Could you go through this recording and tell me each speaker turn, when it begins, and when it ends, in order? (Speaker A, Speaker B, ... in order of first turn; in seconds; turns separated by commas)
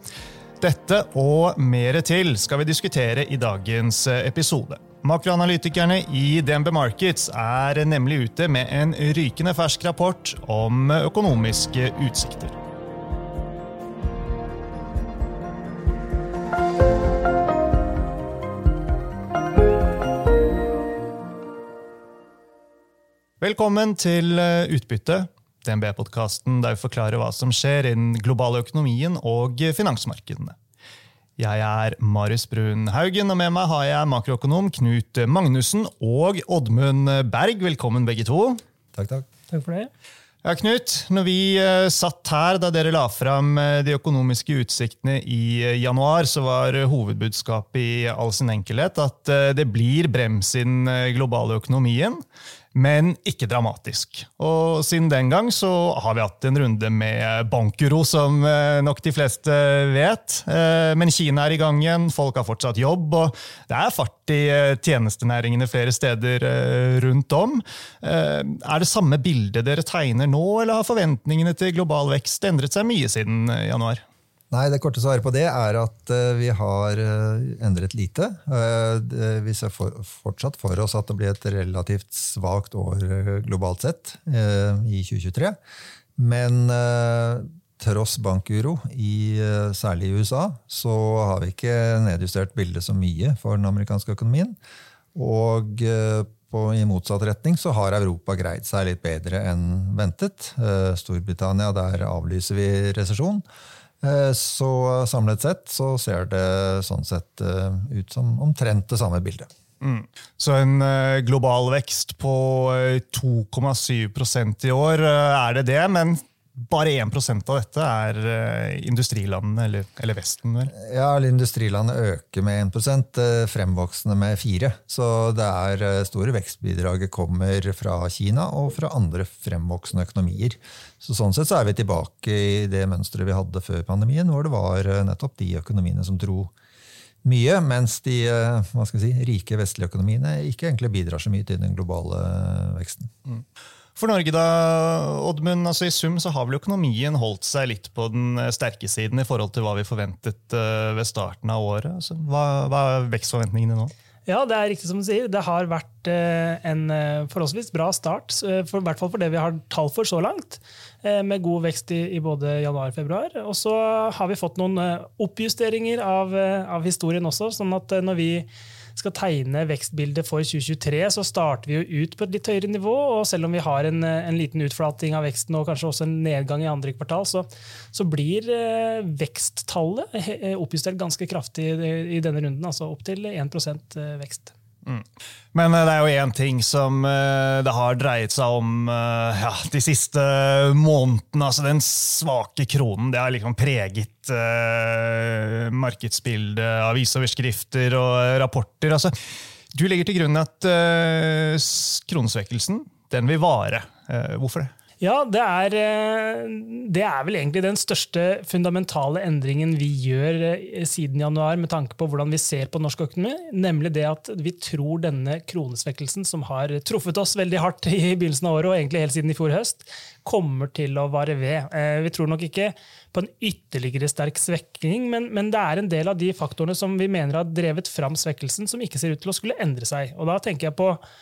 Speaker A: 0.6-12.6, Speaker A: 23.4-30.6, Speaker A: 31.4-38.6, Speaker B: 38.9-39.2, Speaker C: 39.5-39.9, Speaker A: 40.4-52.2, Speaker A: 52.7-74.0, Speaker B: 74.5-85.6, Speaker B: 86.2-94.5, Speaker B: 95.1-103.4, Speaker B: 104.0-109.5, Speaker A: 109.8-120.7, Speaker B: 120.7-136.5, Speaker B: 137.2-143.1, Speaker A: 143.9-153.9, Speaker C: 154.3-184.5, Speaker A: 184.8-199.1, Speaker A: 199.7-204.7, Speaker C: 205.0-231.0